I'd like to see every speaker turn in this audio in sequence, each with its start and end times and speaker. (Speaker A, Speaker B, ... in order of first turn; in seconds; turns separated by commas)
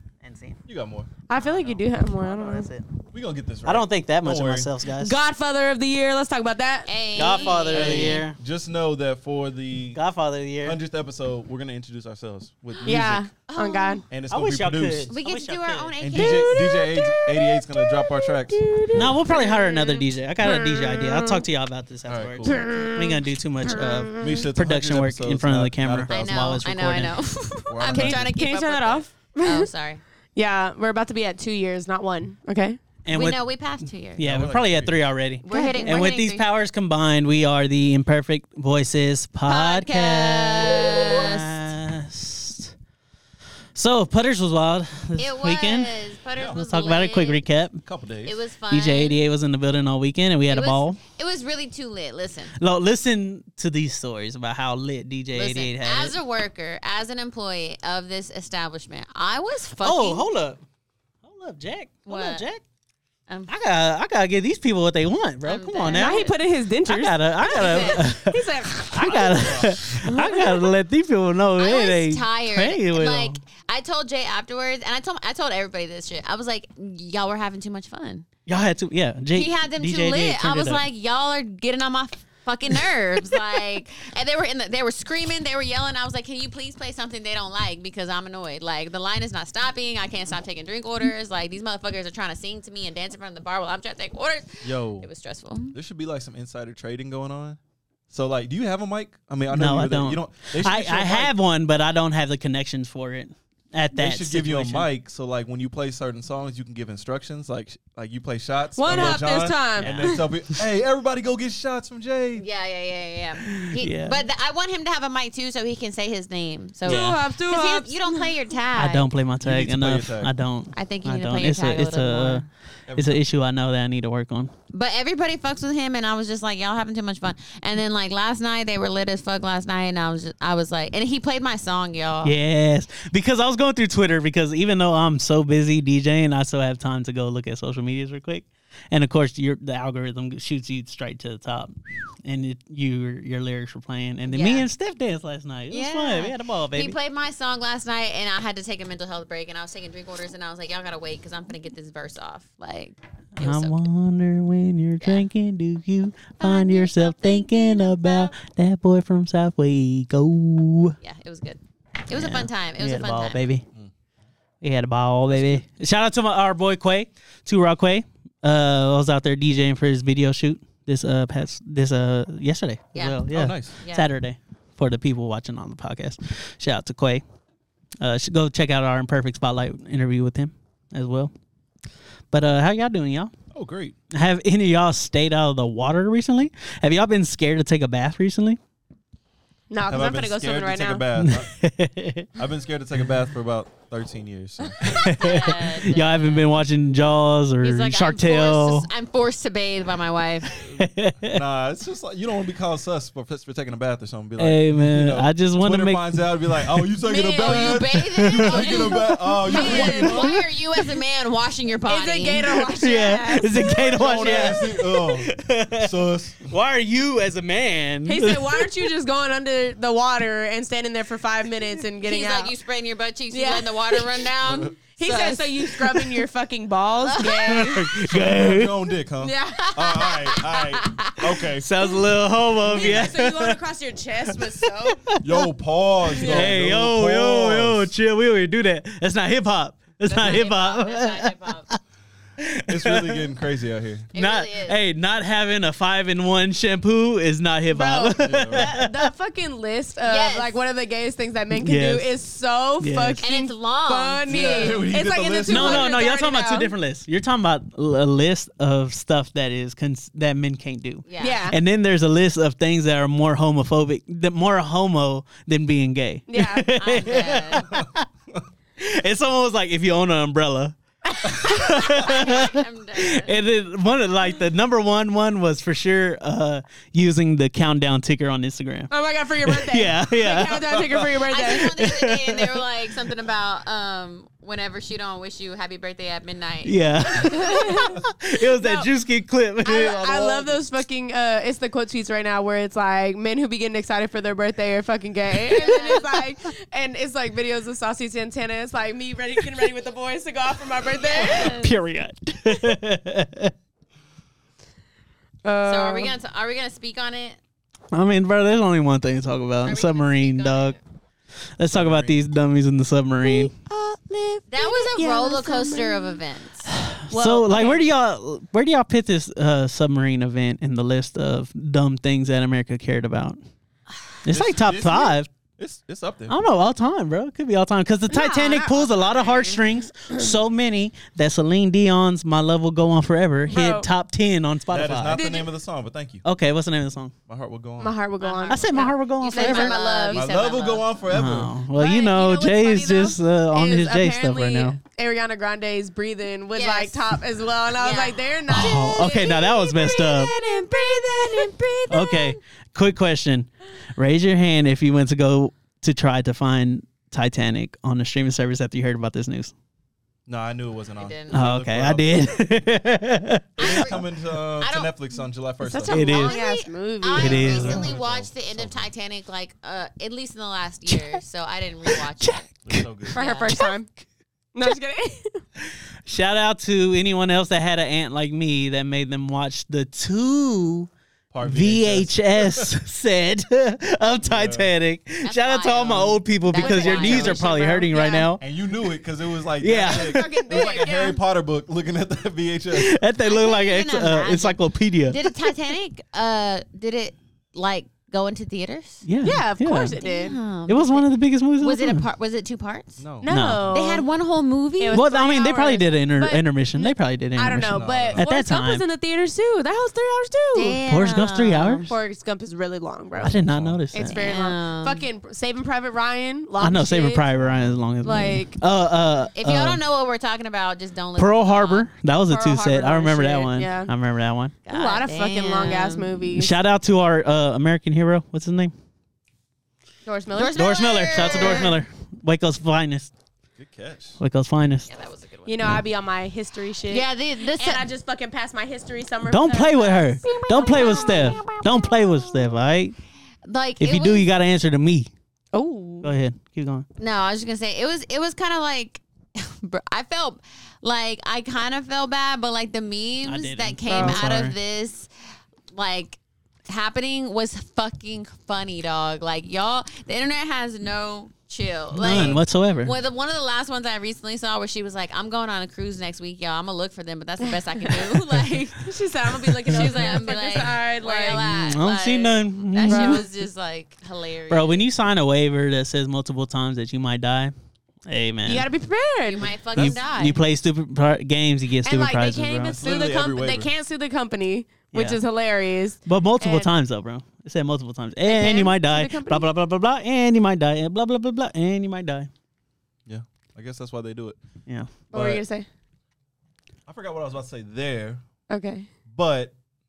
Speaker A: 0.2-0.6, Speaker B: 0.7-1.1, Speaker C: 1.3-2.7, Speaker A: 1.4-2.8, Speaker B: 3.1-4.7, Speaker A: 3.6-5.2, Speaker C: 5.0-7.5, Speaker D: 6.9-8.2, Speaker A: 7.2-8.4, Speaker B: 7.7-10.0, Speaker A: 9.9-10.8, Speaker B: 10.6-13.3, Speaker C: 12.8-14.1, Speaker D: 13.5-14.0, Speaker B: 14.1-15.1, Speaker A: 14.3-15.9, Speaker D: 15.1-16.9, Speaker B: 16.0-19.1, Speaker C: 18.5-21.4, Speaker A: 18.9-27.2, Speaker B: 22.1-22.6, Speaker C: 22.5-24.5, Speaker B: 24.2-26.4, Speaker D: 26.1-30.0, Speaker B: 27.7-28.3, Speaker C: 27.8-29.7, Speaker C: 30.4-32.8, Speaker A: 33.1-33.4, Speaker D: 33.1-34.2, Speaker A: 34.2-42.7, Speaker B: 34.2-35.1, Speaker D: 35.4-36.4, Speaker C: 35.5-36.0, Speaker D: 39.5-41.6, Speaker A: 43.7-45.9, Speaker D: 45.2-47.4, Speaker B: 46.4-46.6, Speaker A: 46.6-47.8, Speaker B: 47.8-48.4, Speaker D: 48.2-49.2, Speaker A: 48.7-51.0, Speaker D: 50.5-52.5, Speaker A: 52.6-56.1, Speaker D: 55.3-60.2, Speaker A: 59.8-60.6, Speaker A: 61.2-62.6, Speaker D: 62.1-62.4, Speaker A: 63.5-66.3, Speaker D: 65.4-66.3, Speaker C: 65.9-70.7, Speaker A: 66.9-73.4, Speaker D: 67.4-68.1, Speaker B: 69.1-70.0, Speaker D: 71.6-78.3, Speaker A: 78.5-80.8, Speaker D: 79.3-95.8, Speaker B: 94.6-95.1, Speaker B: 95.7-97.6, Speaker B: 98.1-101.3, Speaker A: 99.5-104.9, Speaker B: 103.9-112.4, Speaker C: 108.8-110.2, Speaker A: 108.9-109.2, Speaker A: 109.8-110.6, Speaker D: 112.3-119.0, Speaker A: 113.5-114.2, Speaker C: 116.8-118.3, Speaker A: 116.8-117.2, Speaker A: 118.8-124.5, Speaker B: 119.4-120.3, Speaker D: 120.7-122.5, Speaker B: 122.9-123.2, Speaker D: 124.7-132.3, Speaker A: 132.2-146.9, Speaker D: 144.3-144.7, Speaker D: 145.7-153.8, Speaker A: 153.4-161.0, Speaker D: 155.0-155.3, Speaker D: 156.4-158.3, Speaker D: 161.0-163.4, Speaker A: 162.1-163.7, Speaker A: 164.6-177.2, Speaker B: 165.3-165.7, Speaker D: 172.9-174.1, Speaker B: 173.3-173.7, Speaker A: 178.0-181.3, Speaker A: 182.3-183.3, Speaker B: 183.5-183.9, Speaker A: 184.1-188.6, Speaker C: 189.7-191.1, Speaker B: 189.9-191.5, Speaker A: 191.2-192.3, Speaker B: 192.4-194.8, Speaker A: 194.8-198.9, Speaker D: 194.9-196.5, Speaker D: 197.6-200.5, Speaker A: 200.6-201.4, Speaker B: 200.7-210.3, Speaker A: 204.4-206.2, Speaker D: 207.1-212.6, Speaker A: 208.2-209.2, Speaker C: 209.4-210.3, Speaker C: 211.9-214.3, Speaker A: 212.7-215.9, Speaker B: 213.6-216.5, Speaker A: 216.4-218.9, Speaker C: 218.1-222.5, Speaker D: 222.0-225.7, Speaker C: 223.3-224.2, Speaker B: 224.4-224.8, Speaker C: 225.0-227.9, Speaker D: 227.1-227.6, Speaker A: 227.4-228.8, Speaker B: 228.0-231.8, Speaker C: 229.2-230.1, Speaker D: 229.8-231.1, Speaker A: 231.6-233.6, Speaker C: 232.6-235.0, Speaker A: 234.3-235.4, Speaker B: 235.2-237.9, Speaker C: 236.1-236.5, Speaker A: 236.2-241.8, Speaker D: 240.1-241.7, Speaker A: 242.4-243.3, Speaker B: 242.7-244.1, Speaker D: 244.1-244.8, Speaker A: 244.1-249.1, Speaker C: 247.7-256.7, Speaker B: 248.2-248.8, Speaker D: 250.0-250.6, Speaker A: 251.5-252.2, Speaker A: 252.8-253.2, Speaker D: 253.2-254.8, Speaker B: 254.3-255.9, Speaker A: 255.5-268.1, Speaker D: 261.1-261.4, Speaker C: 261.2-261.6, Speaker C: 266.3-266.7, Speaker D: 266.8-267.7, Speaker A: 268.8-270.8, Speaker C: 271.2-271.8, Speaker A: 271.4-278.9, Speaker D: 271.9-273.4, Speaker C: 278.9-281.7, Speaker A: 279.4-280.9, Speaker B: 280.7-281.2, Speaker D: 281.3-286.8, Speaker A: 281.6-282.6, Speaker A: 286.6-290.6, Speaker C: 287.2-288.9, Speaker C: 289.6-301.6, Speaker D: 295.5-296.0, Speaker D: 301.1-301.7, Speaker A: 301.4-303.5, Speaker C: 305.4-306.2, Speaker D: 305.6-307.4, Speaker A: 307.9-310.8, Speaker D: 309.6-310.8, Speaker A: 311.6-313.5, Speaker B: 311.7-312.2, Speaker C: 313.2-316.2, Speaker D: 314.5-316.7, Speaker A: 316.7-323.4, Speaker C: 317.1-317.8, Speaker A: 324.2-325.3, Speaker B: 324.3-326.4, Speaker A: 326.3-335.2, Speaker C: 328.1-329.6, Speaker C: 333.5-333.9, Speaker B: 334.7-336.2, Speaker C: 335.1-335.5, Speaker A: 336.2-337.1, Speaker B: 337.3-338.0, Speaker C: 337.8-340.2, Speaker D: 338.2-340.9, Speaker A: 338.5-339.8, Speaker B: 340.1-341.5, Speaker A: 341.1-344.8, Speaker C: 341.7-351.8, Speaker D: 346.5-347.1, Speaker D: 347.8-349.1, Speaker A: 348.5-350.3, Speaker D: 350.0-352.3, Speaker A: 351.9-359.5, Speaker B: 360.3-362.5, Speaker D: 361.0-361.4, Speaker A: 361.3-364.0, Speaker B: 363.6-366.0, Speaker D: 363.6-364.0, Speaker D: 364.6-364.9, Speaker C: 365.6-367.7, Speaker A: 365.9-366.4, Speaker D: 366.1-372.4, Speaker A: 367.2-367.9, Speaker B: 367.3-368.9, Speaker A: 370.9-371.2, Speaker A: 372.0-372.9, Speaker B: 372.7-373.2, Speaker C: 373.1-373.9, Speaker D: 373.1-373.6, Speaker C: 374.6-375.4, Speaker A: 376.1-380.9, Speaker B: 381.3-382.7, Speaker A: 381.4-388.4, Speaker B: 384.2-384.7, Speaker D: 385.2-388.2, Speaker C: 386.6-388.2, Speaker B: 388.4-393.0, Speaker A: 389.6-390.3, Speaker C: 389.8-391.2, Speaker A: 392.7-395.2, Speaker D: 393.2-399.0, Speaker A: 399.1-399.9, Speaker C: 399.2-400.4, Speaker D: 400.0-401.1, Speaker A: 400.7-402.0, Speaker D: 401.6-403.0, Speaker B: 403.0-403.6, Speaker C: 403.2-404.1, Speaker A: 403.2-403.7, Speaker D: 403.7-405.0, Speaker C: 404.8-410.8, Speaker A: 404.9-408.8, Speaker B: 407.7-408.2, Speaker D: 410.5-411.9, Speaker A: 410.9-411.9, Speaker C: 411.8-413.4, Speaker A: 413.2-414.3, Speaker B: 413.2-413.8, Speaker C: 413.9-417.2, Speaker D: 414.1-415.1, Speaker A: 416.6-419.8, Speaker B: 417.4-417.8, Speaker C: 418.0-418.6, Speaker D: 419.3-421.9, Speaker A: 421.2-424.6, Speaker C: 422.3-423.9, Speaker D: 424.7-426.1, Speaker C: 424.7-426.5, Speaker A: 426.3-428.7, Speaker C: 430.1-431.8, Speaker D: 430.3-431.8, Speaker A: 430.6-433.1, Speaker B: 433.6-434.2, Speaker A: 434.2-434.9, Speaker D: 434.9-435.7, Speaker C: 435.4-441.5, Speaker D: 436.9-437.9, Speaker A: 439.2-442.9, Speaker D: 440.2-441.9, Speaker D: 443.4-444.3, Speaker A: 443.8-445.1, Speaker C: 445.5-446.1, Speaker A: 446.0-446.9, Speaker D: 447.0-455.1, Speaker A: 453.2-454.6, Speaker C: 453.9-454.2, Speaker D: 455.7-468.8, Speaker A: 462.0-462.9, Speaker B: 462.0-462.4, Speaker C: 467.4-471.5, Speaker D: 469.7-474.8, Speaker A: 471.4-473.2, Speaker C: 472.9-473.2, Speaker A: 474.5-477.5, Speaker A: 478.1-478.7, Speaker C: 478.4-479.6, Speaker D: 479.2-480.4, Speaker A: 479.7-482.8, Speaker C: 481.8-486.7, Speaker B: 482.7-483.7, Speaker A: 484.9-485.2, Speaker A: 486.1-492.3, Speaker C: 488.2-489.5, Speaker B: 493.1-494.4, Speaker B: 495.1-495.4, Speaker C: 495.1-495.7, Speaker B: 496.9-498.2, Speaker C: 498.5-498.9, Speaker B: 499.1-499.5